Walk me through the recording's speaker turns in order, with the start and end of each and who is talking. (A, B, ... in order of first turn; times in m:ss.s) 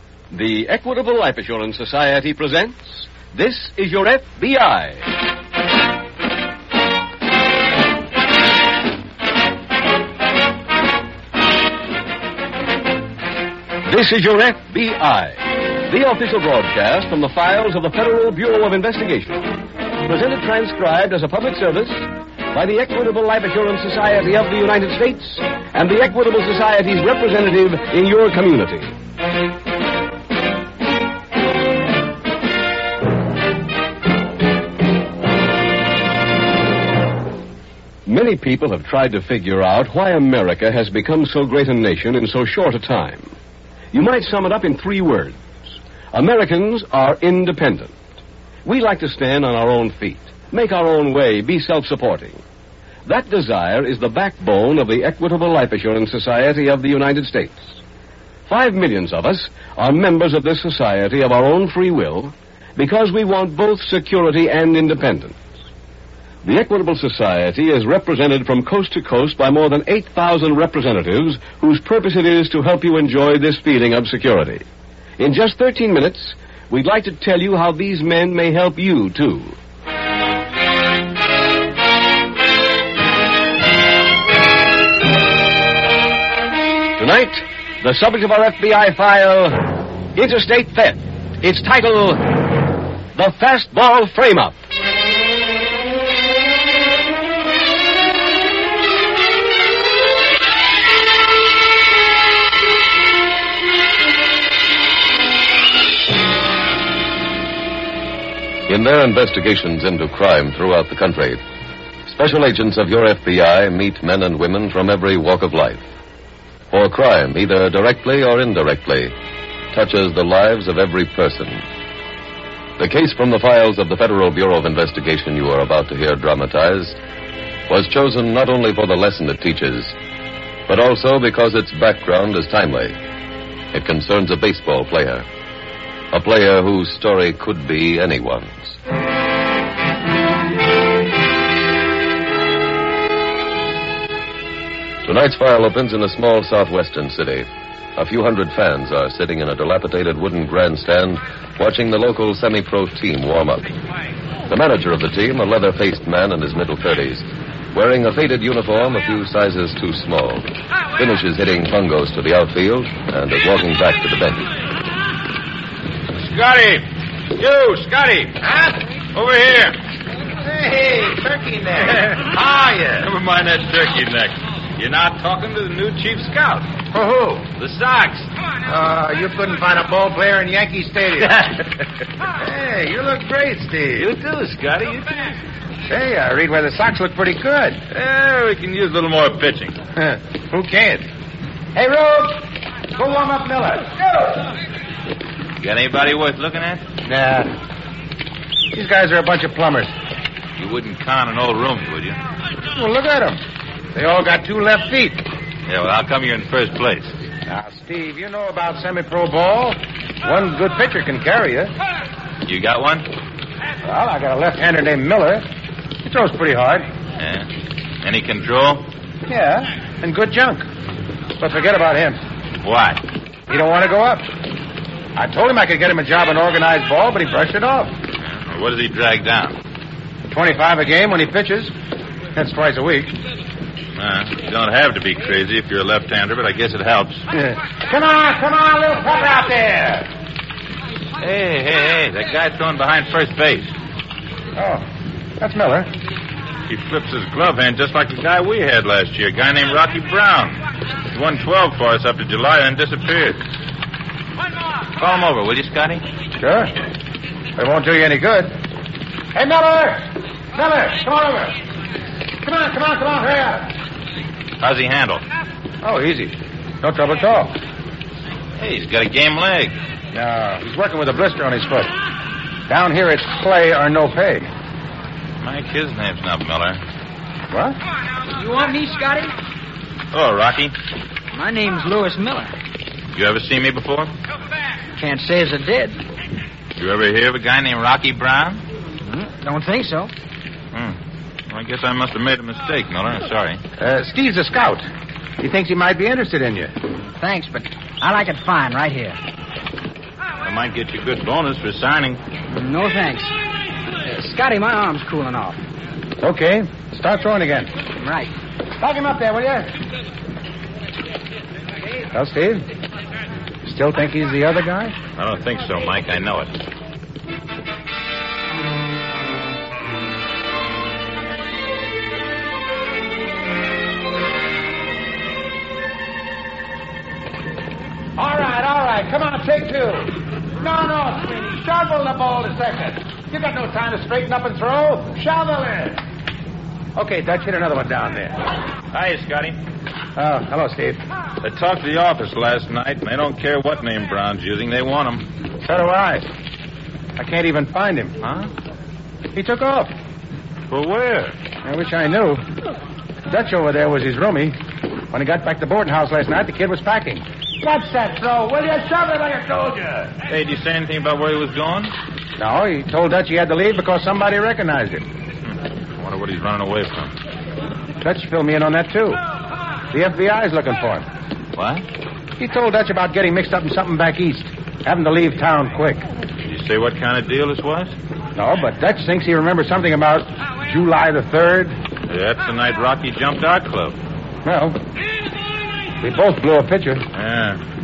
0:00.3-0:05.0 A
0:13.8-0:19.5 A
0:20.0-0:29.0 A
0:38.1-0:43.3 A
0:43.9-0:45.4 A
0:46.1-0:48.0 A
0:48.6-0:52.4 A
0:53.1-0:57.8 A
0:58.5-1:05.4 A
1:06.4-1:14.6 A
1:15.2-1:19.6 A
1:27.0-1:34.6 A
1:48.7-1:51.4 B
1:52.1-1:55.9 B
1:56.7-1:59.1 B
1:59.7-2:01.7 B
2:02.8-2:07.0 B
2:07.7-2:10.0 B
2:10.7-2:13.0 B
2:13.7-2:15.3 B
2:16.1-2:18.8 B
2:25.0-2:33.7 B
2:34.5-2:44.5 B
2:46.1-2:48.5 C
2:49.1-2:49.8 C
2:50.4-2:53.0 D
2:52.9-2:56.8 C
2:56.9-2:57.5 D
2:57.5-2:58.3 C
2:58.6-3:01.6 D
3:02.4-3:04.0 D
3:04.0-3:05.4 C
3:05.9-3:07.8 D
3:07.9-3:09.8 C
3:10.0-3:11.1 D
3:11.7-3:14.3 D
3:15.6-3:16.8 C
3:17.0-3:17.6 D
3:18.7-3:19.9 D
3:20.6-3:22.2 C
3:22.7-3:23.4 D
3:23.9-3:25.3 D
3:25.7-3:27.2 C
3:27.5-3:31.8 D
3:32.5-3:33.1 C
3:33.8-3:35.5 D
3:36.0-3:36.9 D
3:37.2-3:37.5 C
3:38.0-3:38.9 C
3:39.3-3:40.6 D
3:41.4-3:42.2 D
3:42.6-3:43.0 C
3:43.5-3:44.4 D
3:45.2-3:48.0 D
3:48.2-3:49.6 C
3:50.3-3:51.7 D
3:52.4-3:53.2 D
3:54.0-3:57.2 C
3:57.3-4:00.1 D
4:01.2-4:03.7 C
4:04.6-4:04.8 D
4:05.4-4:05.9 D
4:06.7-4:13.4 C
4:15.0-4:16.0 C
4:16.4-4:16.8 D
4:17.6-4:18.6 D
4:19.3-4:21.6 D
4:22.4-4:23.8 D
4:24.6-4:25.2 C
4:25.8-4:27.6 D
4:28.6-4:29.8 C
4:30.1-4:31.9 D
4:32.7-4:34.5 D
4:35.4-4:36.8 C
4:37.5-4:37.8 D
4:38.4-4:39.3 E
4:40.1-4:40.7 C
4:41.3-4:42.5 E
4:43.1-4:44.1 C
4:45.0-4:46.0 E
4:46.8-4:48.6 C
4:49.1-4:50.1 E
4:50.7-4:51.0 C
4:51.5-4:53.6 C
4:53.8-4:54.9 D
4:55.4-4:56.7 D
4:57.2-4:59.2 E
5:00.4-5:02.2 C
5:02.5-5:03.3 E
5:04.0-5:05.6 E
5:06.2-5:07.7 D
5:08.0-5:08.3 E
5:08.8-5:09.8 D
5:12.1-5:12.7 D
5:13.6-5:15.0 D
5:15.2-5:16.6 C
5:28.2-5:36.0 D
5:37.0-5:38.4 D
5:38.9-5:39.6 C
5:40.2-5:41.0 D
5:41.4-5:45.3 C
5:45.6-5:46.3 D
5:47.2-5:48.2 D
5:48.2-5:48.5 C
5:49.3-5:49.9 D
5:50.7-5:51.4 C
5:51.6-5:52.4 D
5:53.3-5:54.6 D
5:55.1-6:00.2 D
6:00.3-6:01.9 C
6:02.4-6:05.1 D
6:06.0-6:07.1 C
6:08.0-6:09.2 D
6:09.9-6:11.1 D
6:11.6-6:11.9 C
6:12.4-6:16.0 D
6:16.4-6:18.0 C
6:18.4-6:21.8 D
6:22.1-6:24.0 C
6:24.4-6:24.8 D
6:26.0-6:27.0 D
6:27.1-6:27.6 C